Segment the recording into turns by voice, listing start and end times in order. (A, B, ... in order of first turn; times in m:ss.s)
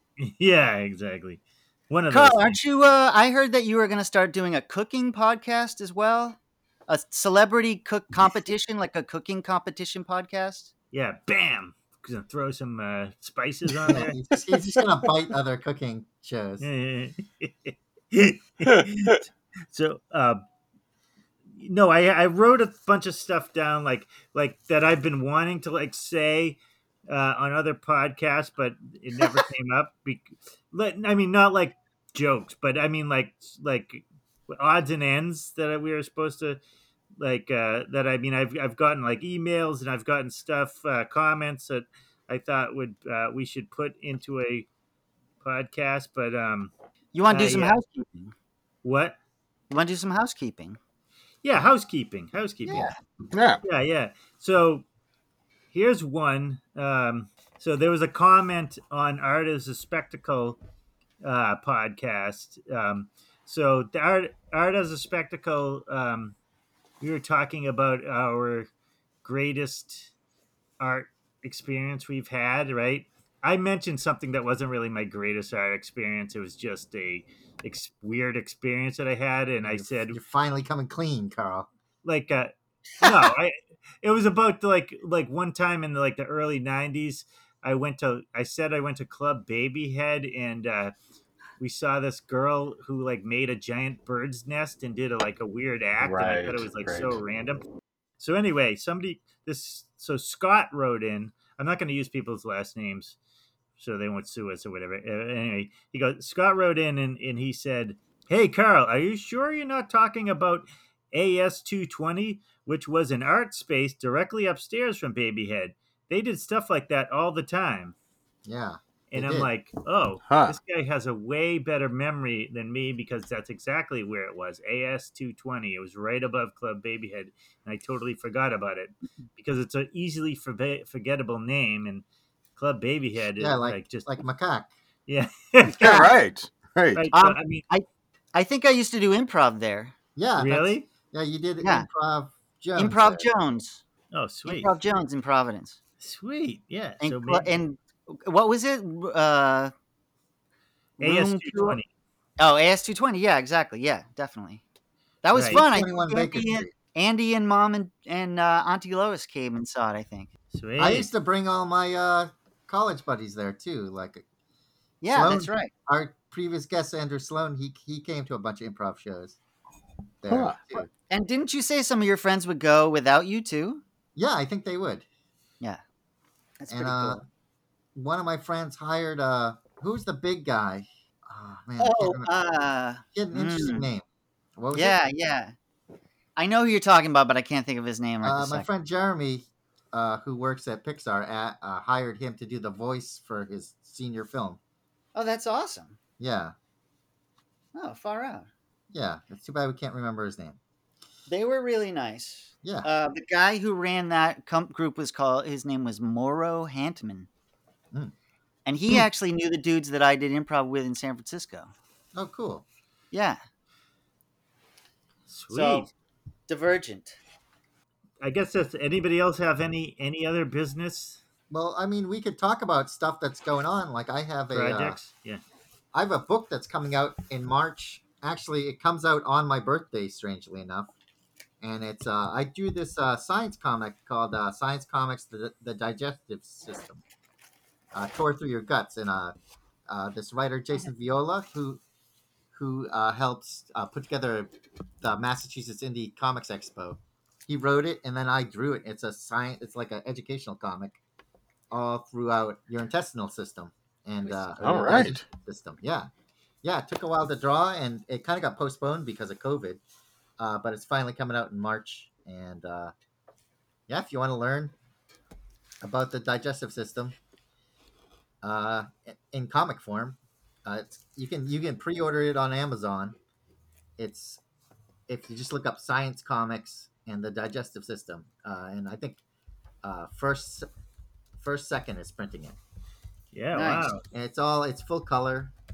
0:00.2-0:02.6 A
0:02.1-0:10.7 B
0:10.9-0:14.2 A
0:13.9-0:16.7 C
0:16.6-0:20.4 A
0:21.6-0:36.6 A
0:37.2-0:44.7 A
0:45.4-0:46.7 A
0:47.1-0:48.3 B
0:47.3-0:47.8 A
0:48.8-0:49.2 A
0:49.7-0:50.8 B
0:51.4-0:52.9 A
0:52.7-0:52.9 B
0:53.3-0:53.6 D
0:53.6-0:54.8 A
0:55.7-1:00.6 A
1:01.2-1:06.4 A
1:07.0-1:08.7 A
1:09.2-1:10.1 A
1:10.8-1:20.2 A
1:19.6-1:21.7 C
1:22.0-1:30.9 A
1:31.6-1:37.6 A
1:36.0-1:37.2 D
1:38.2-1:43.2 A
1:43.8-1:58.0 A
1:58.5-1:59.5 C
1:59.1-2:12.0 A
2:00.3-2:00.6 D
2:12.6-2:14.1 A
2:13.4-2:14.7 C
2:15.1-2:16.1 A
2:15.8-2:17.0 D
2:17.0-2:17.6 A
2:17.1-2:19.9 B
2:20.2-2:23.3 C
2:20.4-2:20.9 A
2:22.8-2:23.8 B
2:24.1-2:24.7 A
2:24.4-2:25.8 B
2:26.0-2:27.5 A
2:27.0-2:29.7 B
2:31.0-2:31.8 B
2:31.0-2:31.9 A
2:32.4-2:34.6 B
2:35.2-2:40.3 B
2:35.4-2:35.6 A
2:35.4-2:36.7 C
2:40.5-2:41.1 A
2:40.8-2:44.2 C
2:45.0-2:45.7 B
2:45.1-2:49.4 C
2:50.2-2:50.9 C
2:50.3-2:50.6 D
2:51.1-2:53.8 B
2:54.2-2:55.1 C
2:56.6-2:57.2 B
2:56.7-2:57.2 C
2:58.0-3:02.3 C
3:01.8-3:03.9 B
3:03.1-3:04.0 C
3:04.6-3:05.0 C
3:04.7-3:05.6 B
3:06.4-3:08.7 B
3:08.2-3:14.6 C
3:15.2-3:16.0 B
3:16.2-3:16.6 C
3:17.8-3:18.5 B
3:18.9-3:20.6 C
3:21.3-3:27.3 B
3:28.7-3:31.7 B
3:32.2-3:32.6 C
3:33.1-3:33.4 B
3:35.3-3:35.9 A
3:35.5-3:35.9 B
3:36.5-3:37.2 B
3:38.2-3:41.2 A
3:41.5-3:45.0 C
3:44.5-3:45.4 A
3:45.9-3:50.9 C
3:51.6-3:57.0 C
3:57.9-3:59.4 C
3:59.9-4:01.8 C
4:02.5-4:11.0 C
4:11.7-4:16.1 C
4:14.6-4:15.2 D
4:16.6-4:19.8 C
4:20.4-4:22.9 C
4:23.9-4:24.7 C
4:25.8-4:27.2 C
4:28.4-4:33.2 C
4:34.0-4:34.4 C
4:35.1-4:39.2 C
4:39.8-4:40.7 C
4:41.4-4:42.6 C
4:43.3-4:44.0 A
4:43.5-4:44.0 B
4:44.1-4:45.5 C